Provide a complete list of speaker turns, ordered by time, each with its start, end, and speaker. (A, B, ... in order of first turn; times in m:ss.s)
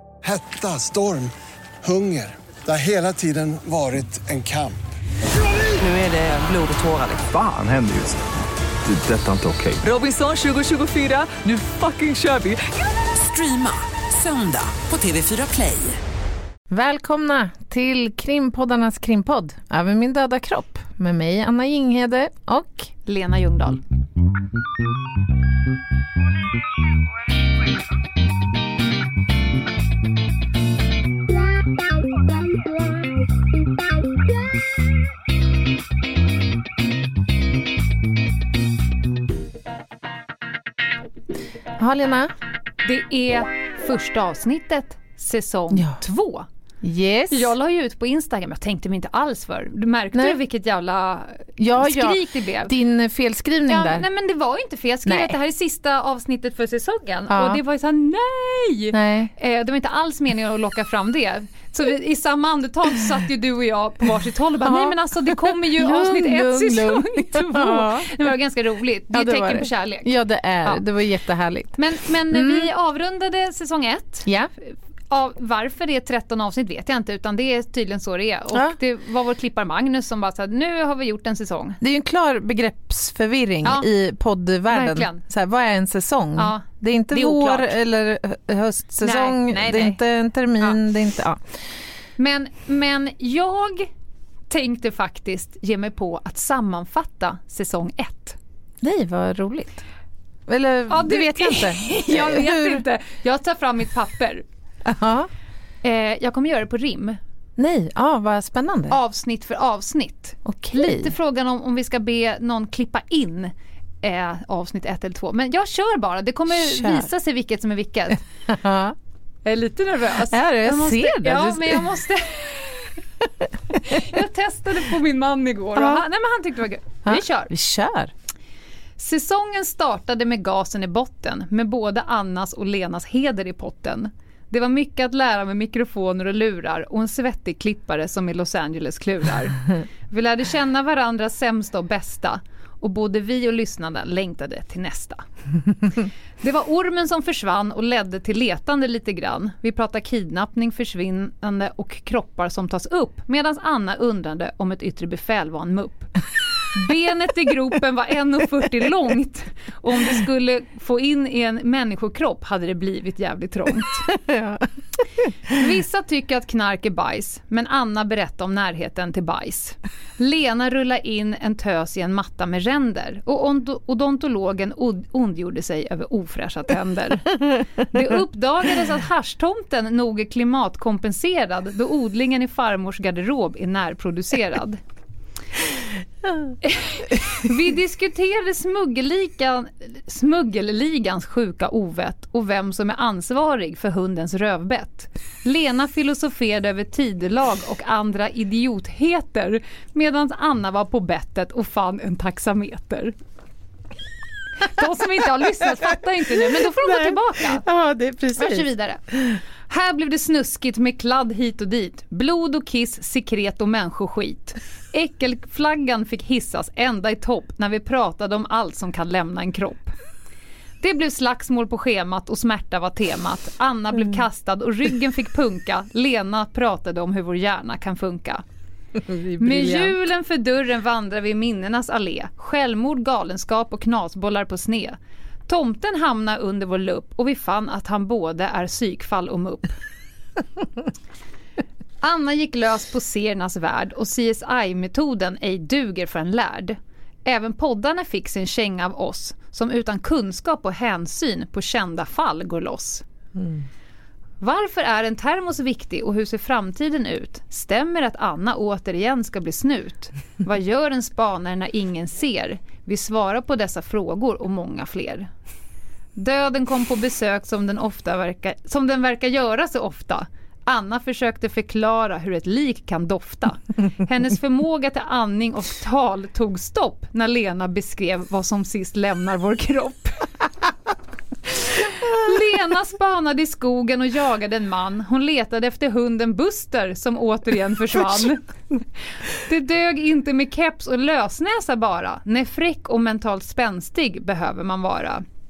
0:00.2-0:01.3 A
0:01.8-0:04.8 A
0:05.5-0:07.2 B
0:07.2-0:08.2 C
0:08.8-0:09.8 C
0:09.8-0:16.0 B
0:16.7-0:22.9 D
0:23.0-0:23.8 E
0:41.8-0:42.3 D
0:42.8-0:46.5 E
0:45.7-0:46.0 D
0:46.8-0:47.5 D
0:47.3-0:52.7 E
0:50.1-0:50.4 D
0:51.6-0:54.0 D
0:53.7-1:10.1 E
0:55.0-0:55.4 D
0:57.3-0:57.6 D
0:58.9-0:59.3 D
1:04.6-1:08.2 D
1:09.1-1:11.8 D
1:11.8-1:21.8 E
1:12.3-1:12.7 D
1:14.2-1:14.5 D
1:21.8-1:31.4 D
1:24.7-1:25.2 E
1:26.4-1:27.7 E
1:29.0-1:30.0 E
1:32.2-1:33.9 E
1:34.5-1:38.4 E
1:38.8-1:39.8 D
1:40.5-1:42.8 D
1:40.9-1:44.4 E
1:44.8-1:45.3 D
1:45.8-1:47.2 E
1:47.6-1:49.0 D
1:48.9-1:58.2 E
1:50.4-1:51.1 D
1:56.5-1:57.1 D
1:58.5-1:59.0 D
1:59.4-2:02.9 E
2:00.3-2:01.8 D
2:03.7-2:07.5 E
2:03.7-2:04.0 D
2:05.7-2:06.0 D
2:07.0-2:08.1 D
2:09.0-2:25.2 E
2:26.4-2:36.2 E
2:36.7-2:44.1 E
2:44.1-2:44.7 D
2:45.3-2:45.6 D
2:45.5-3:04.8 E
3:06.6-3:23.1 E
3:24.6-3:27.6 E
3:26.4-3:29.4 D
3:28.4-3:29.0 E
3:29.7-3:39.9 E
3:40.8-3:48.4 E
3:49.0-3:50.0 D
3:49.4-3:55.0 E
3:55.5-3:59.7 E
4:02.0-4:13.0 E
4:14.4-4:25.3 E
4:26.2-4:40.3 E
4:41.6-4:48.4 E
4:49.3-4:55.2 E